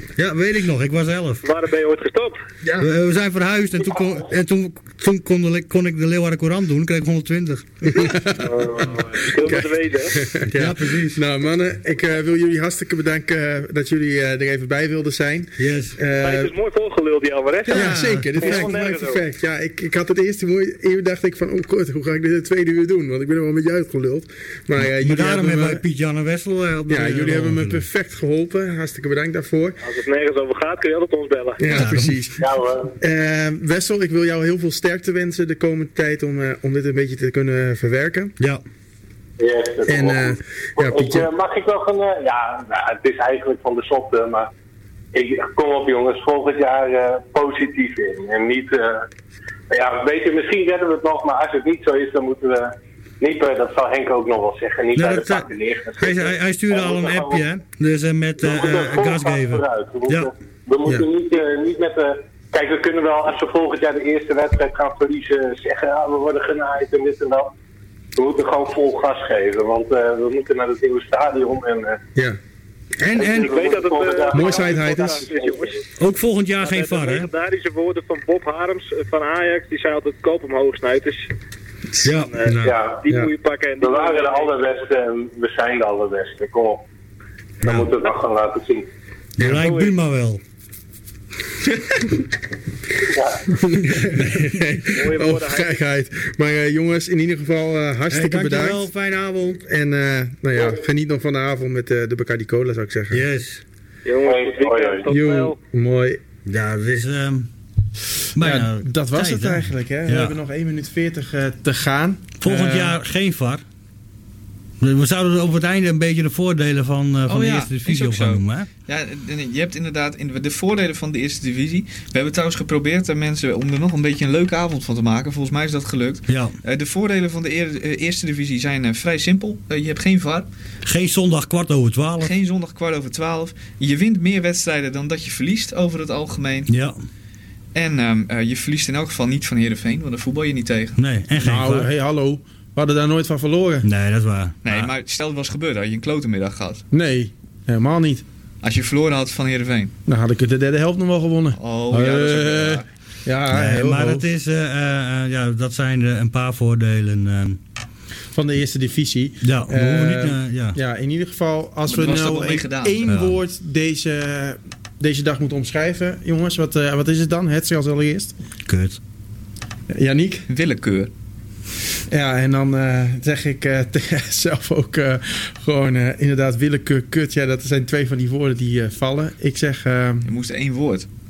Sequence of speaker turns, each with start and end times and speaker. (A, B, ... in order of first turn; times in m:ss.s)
0:00.2-0:01.4 A
0:01.4-0:02.4 B
0:02.6-0:02.9 C
0:02.8-0:08.0 A
0:07.9-0:16.5 D
0:08.5-0:10.2 B
0:10.5-0:11.2 A
0:15.6-0:16.0 A
0:16.2-0:19.2 B
0:17.7-0:18.7 A
0:17.7-0:25.8 D
0:24.8-0:27.8 A
0:26.9-0:29.8 D
0:29.8-0:31.9 B
0:31.6-0:32.4 D
0:31.7-0:32.2 A
0:32.4-0:32.9 E
0:33.0-0:38.3 D
0:39.4-0:44.5 E
0:39.9-0:41.3 D
0:45.1-0:49.0 E
0:49.7-0:57.4 E
0:55.0-1:00.3 A
0:58.4-1:07.5 E
1:08.2-1:12.0 E
1:13.0-1:13.6 A
1:13.2-1:15.7 E
1:13.2-1:15.8 B
1:14.3-1:15.3 D
1:16.0-1:17.3 A
1:16.6-1:21.3 B
1:22.0-1:22.5 A
1:22.1-1:24.6 B
1:22.4-1:23.3 D
1:22.6-1:23.0 E
1:23.8-1:26.8 E
1:27.6-1:27.9 A
1:27.6-1:28.9 E
1:29.4-1:30.4 A
1:29.4-1:30.0 B
1:33.0-1:33.4 E
1:33.5-1:38.9 D
1:34.0-1:34.4 A
1:34.9-1:35.8 B
1:38.1-1:39.6 A
1:39.6-1:43.3 D
1:43.1-1:43.6 A
1:44.0-1:45.6 B
1:44.2-1:45.1 E
1:45.1-1:46.2 D
1:46.4-1:47.5 A
1:48.3-1:50.4 A
1:48.4-1:52.7 D
1:52.4-1:53.6 A
1:54.8-1:58.7 A
1:57.3-2:10.5 C
2:06.3-2:06.5 A
2:10.8-2:12.3 A
2:12.2-2:16.7 C
2:16.7-2:17.0 A
2:17.7-2:21.0 C
2:21.0-2:21.9 A
2:21.4-2:23.9 D
2:23.8-2:24.9 A
2:24.6-2:26.8 C
2:26.9-2:28.2 D
2:28.6-2:29.9 C
2:30.1-2:34.2 D
2:31.6-2:32.9 C
2:33.5-2:37.6 A
2:38.3-2:48.3 D
2:39.4-2:40.8 A
2:41.9-2:43.0 C
2:43.1-2:43.4 A
2:48.7-2:49.0 A
2:49.9-2:50.5 D
2:50.5-2:51.1 C
2:52.1-3:00.3 D
3:00.2-3:01.1 C